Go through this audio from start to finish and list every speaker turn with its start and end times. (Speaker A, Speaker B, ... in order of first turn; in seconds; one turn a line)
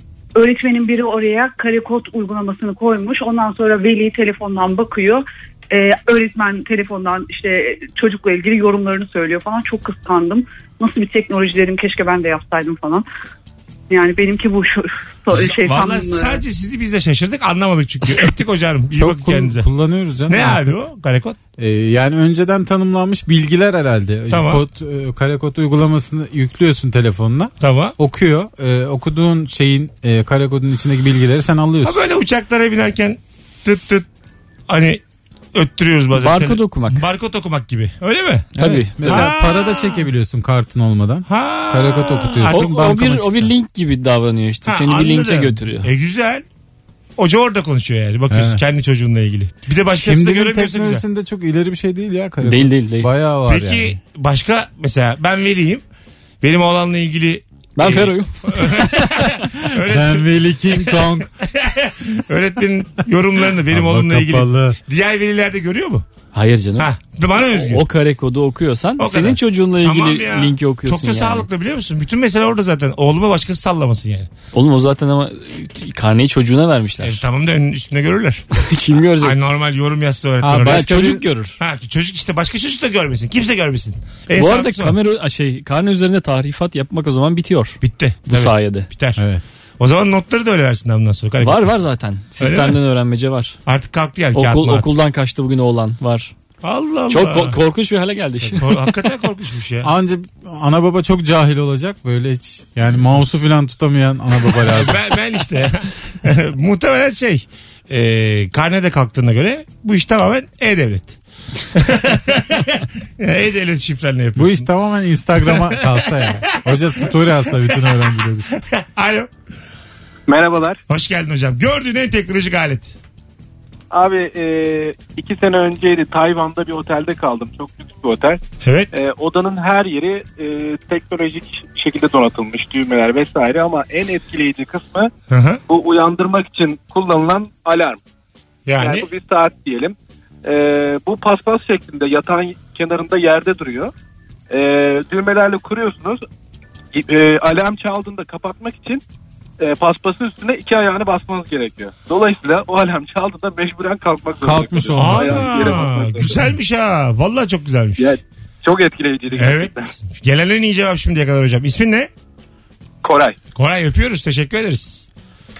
Speaker A: 0.3-13.1
Speaker A: 13.9-16.4
Speaker B: 15.3-19.7
Speaker C: 18.9-20.8
Speaker B: 20.3-21.4
Speaker C: 21.6-32.0
Speaker B: 24.3-24.6
Speaker B: 27.6-27.9
Speaker B: 31.8-34.1
Speaker B: 34.7-35.0
Speaker B: 35.5-40.0
Speaker D: 36.1-37.0
Speaker C: 38.5-43.5
Speaker D: 38.6-39.3
Speaker B: 41.3-42.8
Speaker D: 42.5-45.9
Speaker B: 44.6-46.4
Speaker B: 47.2-51.0
Speaker C: 48.3-48.6
Speaker C: 49.9-54.0
Speaker D: 52.4-53.1
Speaker B: 53.5-55.8
Speaker B: 56.4-66.0
Speaker D: 57.8-58.6
Speaker C: 59.1-61.3
Speaker C: 63.7-64.8
Speaker D: 66.3-66.9
Speaker B: 66.8-67.8
Speaker D: 67.5-71.5
Speaker B: 69.0-74.3
Speaker D: 74.5-77.2
Speaker B: 77.0-78.5
Speaker D: 78.6-79.4
Speaker B: 79.2-84.9
Speaker C: 80.4-81.2
Speaker D: 80.5-81.6
Speaker D: 84.3-88.9
Speaker B: 87.8-89.2
Speaker C: 89.2-89.4
Speaker B: 89.8-91.7
Speaker D: 91.4-93.6
Speaker B: 92.4-92.8
Speaker B: 93.7-94.8
Speaker D: 94.3-96.3
Speaker B: 96.6-97.5
Speaker D: 97.1-98.8
Speaker B: 98.4-99.9
Speaker C: 99.8-105.0
Speaker B: 104.6-111.2
Speaker B: 111.7-114.7
Speaker C: 114.3-118.6
Speaker B: 115.4-117.0
Speaker B: 118.5-119.3
Speaker E: 120.3-120.8
Speaker B: 120.9-122.9
Speaker E: 123.9-128.4
Speaker B: 128.6-128.9
Speaker E: 128.9-135.1
Speaker B: 135.3-135.6
Speaker E: 135.7-138.0
Speaker B: 138.7-139.1
Speaker E: 138.8-143.9
Speaker E: 144.5-146.2
Speaker E: 146.9-149.0
Speaker E: 149.6-156.3
Speaker C: 154.4-155.9
Speaker B: 154.9-158.1
Speaker E: 158.0-159.9
Speaker B: 159.3-162.1
Speaker E: 163.0-163.3
Speaker B: 163.5-165.1